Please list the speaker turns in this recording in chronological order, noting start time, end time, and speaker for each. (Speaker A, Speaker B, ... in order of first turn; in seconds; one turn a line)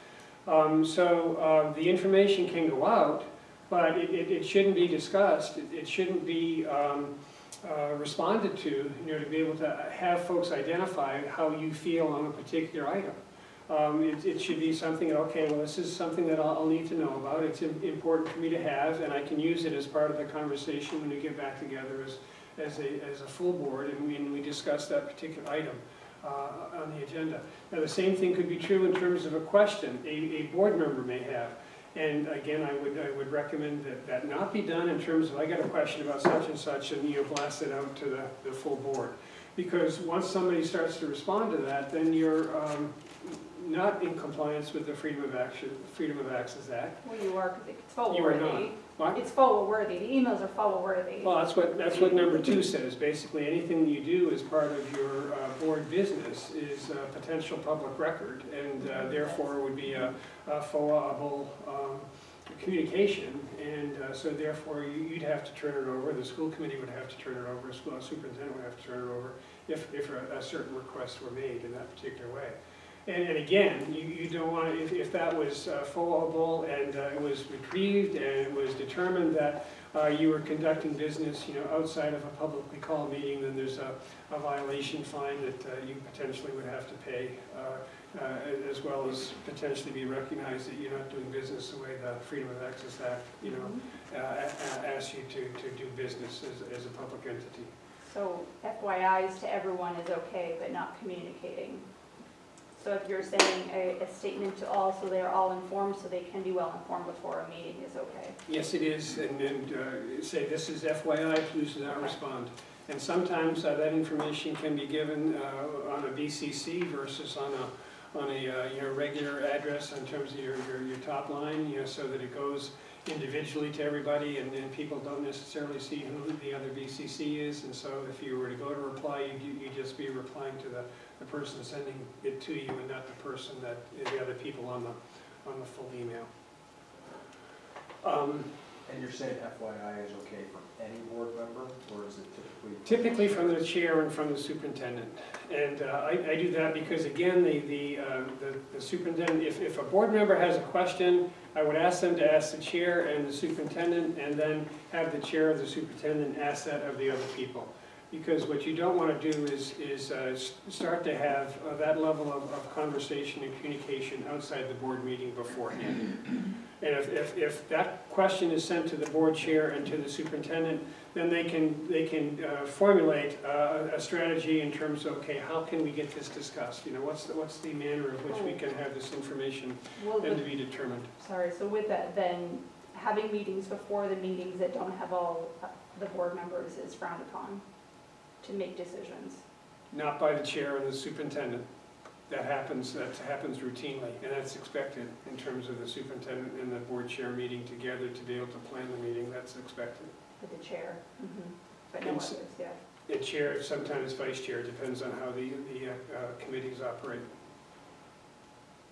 Speaker A: 0.5-13.2
Speaker A: 13.7-47.0
Speaker B: 47.0-51.4
Speaker A: 48.1-49.2
Speaker A: 51.2-97.7
Speaker B: 93.4-93.8
Speaker B: 98.1-101.9
Speaker B: 102.8-108.4
Speaker A: 108.5-136.3
Speaker A: 138.0-138.6
Speaker C: 138.9-143.5
Speaker A: 142.8-181.1
Speaker B: 178.3-178.6
Speaker B: 180.0-180.4
Speaker B: 181.2-187.6
Speaker B: 188.4-189.4
Speaker A: 189.9-191.7
Speaker A: 192.3-200.1
Speaker B: 200.4-202.8
Speaker A: 202.0-202.4
Speaker A: 203.1-207.3